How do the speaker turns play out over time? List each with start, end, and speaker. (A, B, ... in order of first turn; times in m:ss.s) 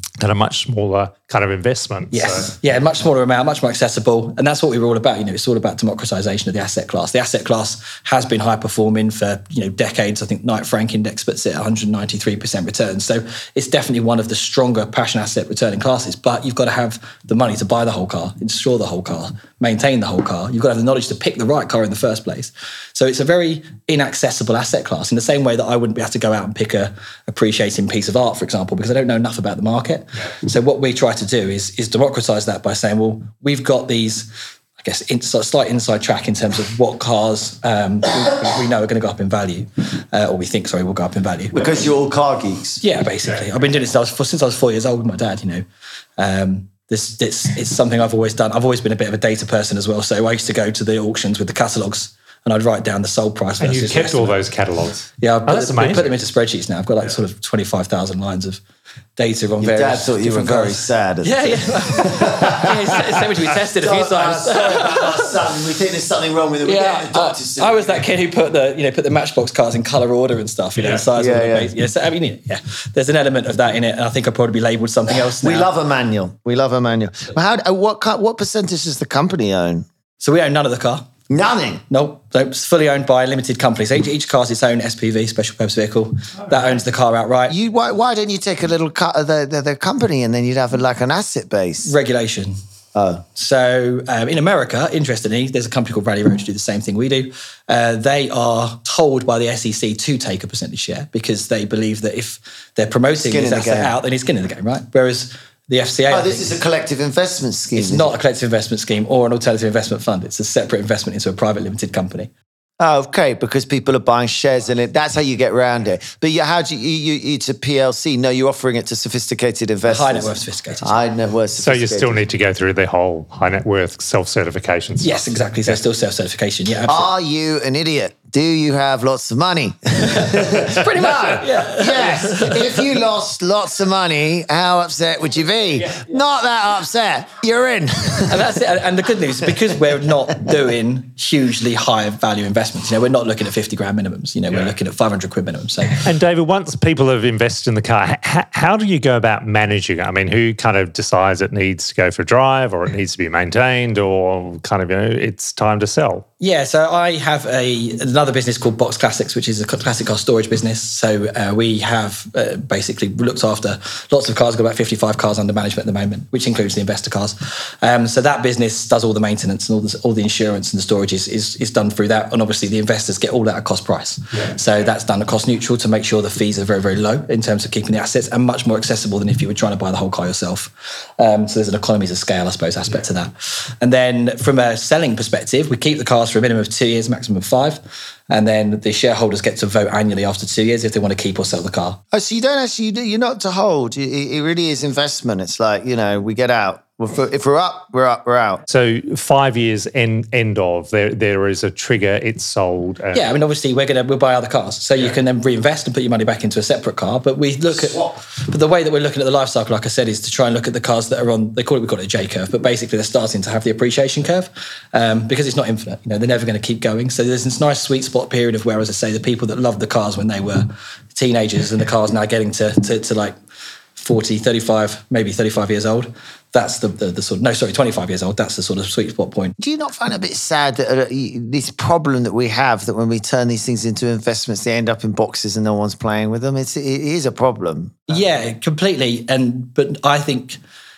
0:00.2-0:02.5 A
0:02.1-0:34.3 B
0:34.8-0:41.9 B
0:41.5-0:42.8 C
0:42.8-0:45.6 B
0:46.2-0:54.4 B
0:53.6-0:56.2 A
0:55.2-0:58.6 B
0:59.2-1:05.4 B
0:59.6-1:08.1 C
1:06.6-1:15.7 B
1:10.8-1:11.0 A
1:11.1-1:11.7 C
1:15.1-1:19.9 C
1:20.2-1:21.1 B
1:21.3-1:21.8 C
1:21.9-1:27.6 B
1:27.5-1:31.9 C
1:31.8-1:32.6 B
1:33.0-1:33.2 C
1:33.4-1:46.6 B
1:43.2-1:44.0 C
1:46.1-1:48.2 C
1:47.8-1:52.3 B
1:52.8-2:02.3 C
1:59.9-2:01.0 B
2:01.6-2:05.8 A
2:05.0-2:07.1 B
2:06.8-2:18.6 C
2:10.0-2:13.0 B
2:18.3-2:26.0 B
2:26.0-2:36.2 A
2:36.4-3:12.0 B
3:12.1-3:18.6 C
3:18.7-3:23.3 A
3:23.1-3:43.4 B
3:27.8-3:28.1 C
3:44.0-3:49.5 B
3:49.6-3:58.2 C
3:58.1-4:00.6 B